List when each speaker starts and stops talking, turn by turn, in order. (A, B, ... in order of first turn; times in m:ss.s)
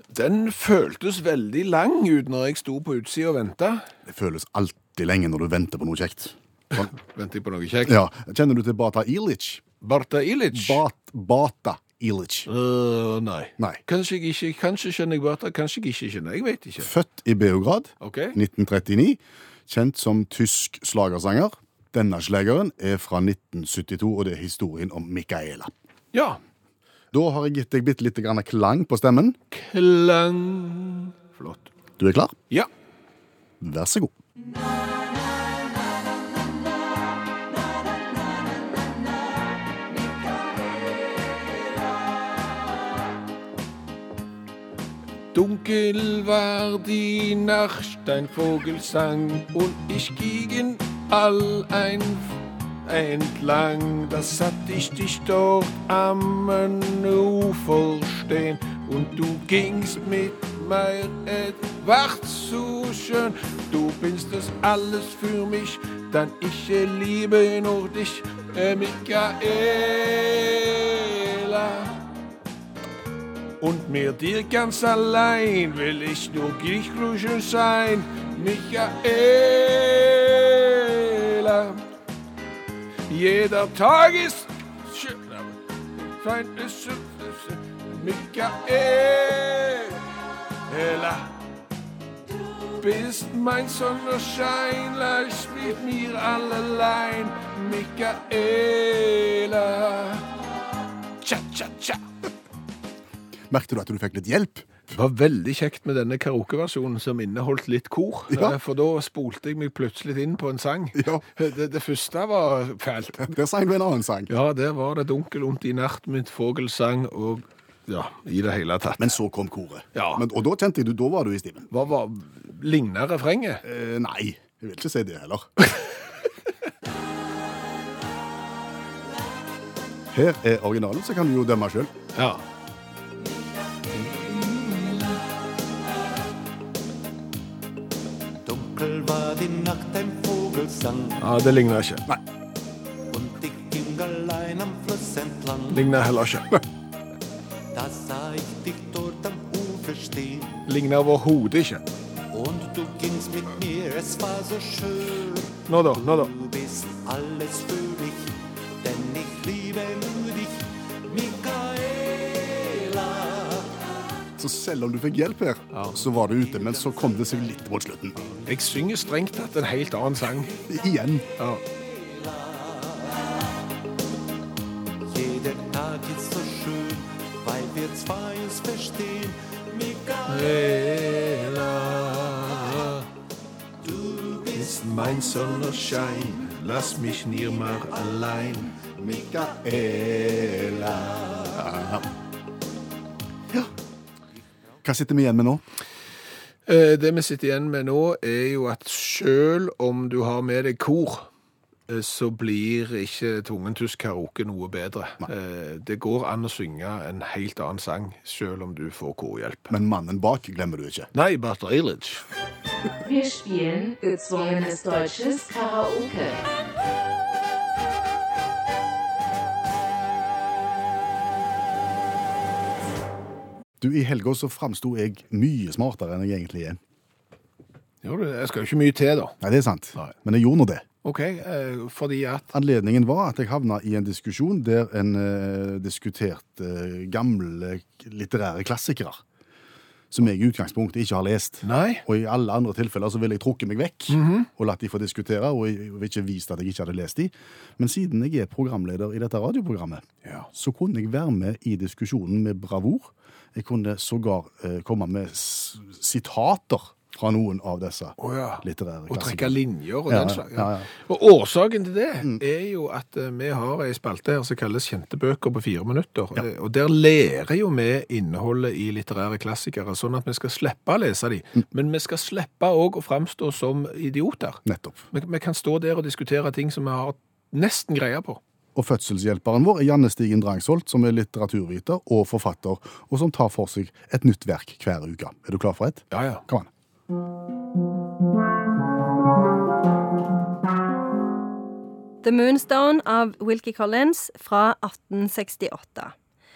0:00.1-0:03.9 A
0:04.0-0:06.9 B
0:06.7-0:08.0 A
0:07.8-0:09.6 B
0:09.8-0:10.8 A
0:10.5-0:12.5 B
0:12.4-0:16.9 A
0:16.8-0:25.7 B
0:18.0-0:18.4 A
0:26.1-0:26.4 A
0:27.1-0:29.4 B
0:29.5-0:31.7 A
0:32.0-0:32.4 B
0:33.6-0:34.1 B
0:45.3-1:12.0 A
1:13.6-1:21.8 A
1:23.1-1:25.6 A
1:26.1-1:30.0 A
1:30.7-1:31.3 A
1:32.8-1:40.3 A
1:41.2-1:42.0 A
1:43.5-1:44.7 B
1:44.9-1:53.3 A
1:48.3-1:48.6 B
1:50.9-1:51.2 B
1:53.2-1:54.3 B
1:54.3-1:59.2 A
1:59.0-2:01.7 B
1:59.9-2:00.2 A
2:01.7-2:03.6 A
2:03.6-2:05.5 B
2:10.1-2:11.9 B
2:12.1-2:12.4 A
2:18.4-2:21.2 C
2:21.2-2:22.0 A
2:23.1-2:25.9 C
2:25.7-2:26.6 A
2:27.7-2:30.6 C
2:30.7-2:31.8 A
2:32.3-2:43.8 C
2:35.7-2:36.3 A
2:44.4-2:48.3 B
2:45.7-2:46.0 A
2:46.5-2:46.9 C
2:48.4-2:50.5 A
2:50.7-2:51.3 B
2:51.4-2:51.6 A
2:51.9-2:53.3 C
2:55.0-3:00.5 C
3:00.3-3:03.1 A
3:03.8-3:06.2 C
3:04.5-3:08.8 A
3:09.0-3:09.6 C
3:09.6-3:12.0 B
3:14.8-3:15.6 B
3:16.7-3:21.3 A
3:21.9-3:29.7 A
3:29.7-3:31.1 B
3:31.1-3:32.2 A
3:33.0-3:36.4 D
3:43.8-3:46.8 B
3:48.0-3:49.4 A
3:49.4-3:50.8 B
3:51.0-3:52.5 A
3:52.5-3:59.2 B
4:00.1-4:20.9 B
4:01.6-4:02.0 A
4:04.1-4:04.5 A
4:18.2-4:38.4 A
4:34.6-4:35.0 B
4:38.7-4:46.7 B
4:46.1-4:46.4 A
4:52.2-4:56.1 E